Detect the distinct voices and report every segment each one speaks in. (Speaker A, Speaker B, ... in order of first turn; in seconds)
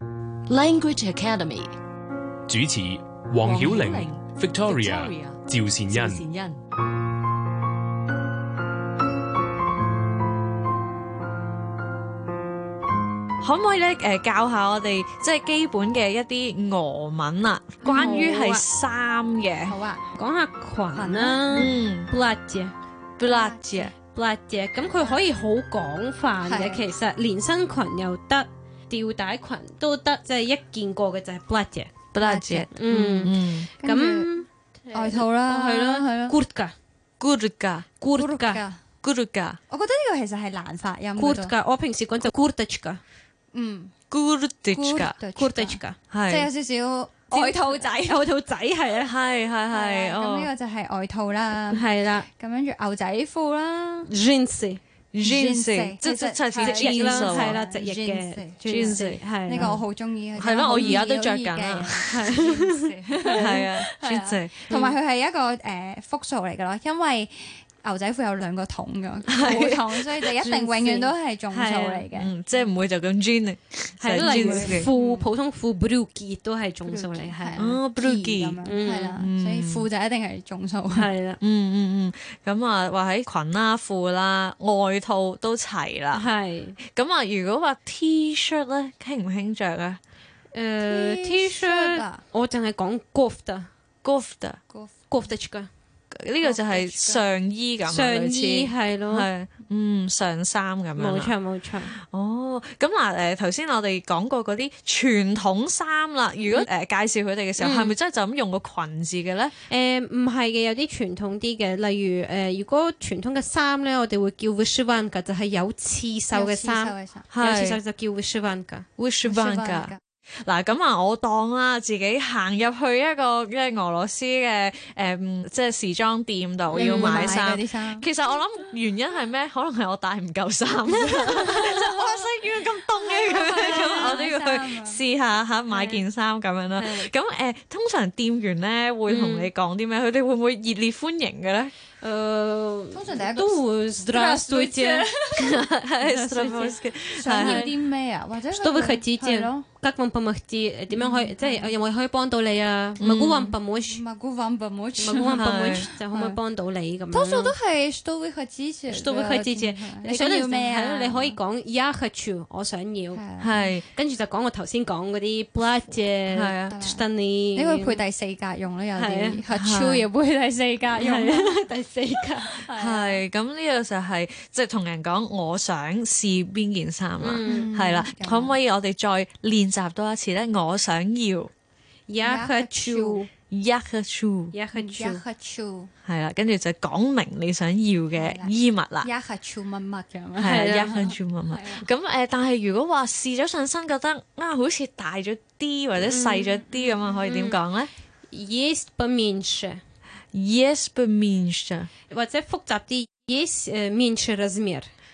Speaker A: 0.5-1.7, 3.4-6.6
Speaker B: 2.5-6.3
Speaker C: 13.4-19.8, 21.5-22.1, 23.2-23.9, 32.1-33.7, 37.2-37.9, 39.0-39.6, 44.1-45.2, 46.1-46.5, 49.0-50.5, 55.1-57.6, 58.7-59.8, 60.4-62.1, 63.4-64.7, 69.3-70.1, 72.1-74.9, 77.6-78.6, 79.2-79.9, 81.4-86.3, 86.9-90.0, 94.0-94.6, 96.1-101.3, 102.0-109.5, 117.3-117.8, 119.0-141.7, 145.4-147.7, 153.0-153.5, 155.4-155.9, 163.4-163.8, 166.3-166.8, 169.5-170.1, 172.8-181.5, 183.5-184.6, 186.1-189.1, 190.4-197.9, 200.3-201.9
Speaker D: 17.8-18.6, 20.2-22.7, 24.0-31.9, 32.8-36.7, 38.0-38.6, 41.2-43.0, 45.4-46.0, 47.3-49.1, 51.7-52.3, 54.1-54.8, 56.6-59.7, 62.0-63.4, 70.4-72.1, 74.0-77.8, 78.7-79.2, 80.9-81.4, 86.1-86.8, 90.5-93.7, 95.1-95.7, 97.8-99.3, 101.0-102.0, 107.6-107.9, 109.7-118.8, 126.7-127.4, 131.2-131.5, 133.6-134.2, 135.7-136.0, 136.8-137.1, 139.1-139.5, 142.0-145.1, 146.0-146.8, 147.4-147.7, 148.5-154.0, 155.0-157.6, 158.9-163.2, 163.9-168.0, 169.0-169.4, 170.9-172.6, 177.2-177.7, 182.1-183.3, 184.5-185.2, 190.4-191.1, 196.1-196.6, 197.2-197.6, 198.3-199.8, 202.1-204.9
Speaker E: 17.9-18.2, 19.7-20.1, 20.9-21.7, 23.2-23.9, 26.5-26.8, 32.2-33.2, 33.8-34.3, 34.9-36.4, 38.1-38.8, 39.7-41.5, 43.5-43.9, 44.7-48.2, 49.7-54.1, 55.2-72.3, 74.1-75.3, 76.9-81.1, 90.8-92.2, 96.4-97.2, 116.3-117.3, 119.2-120.0, 126.7-128.1, 131.2-132.2, 133.1-135.0, 142.9-145.6, 147.2-149.7, 150.9-151.7, 153.9-156.4, 157.1-161.4, 163.2-163.6, 166.7-167.0, 167.6-171.6, 172.3-173.2, 177.5-178.6, 182.2-183.2, 184.7-185.9, 188.1-191.0, 191.5-191.9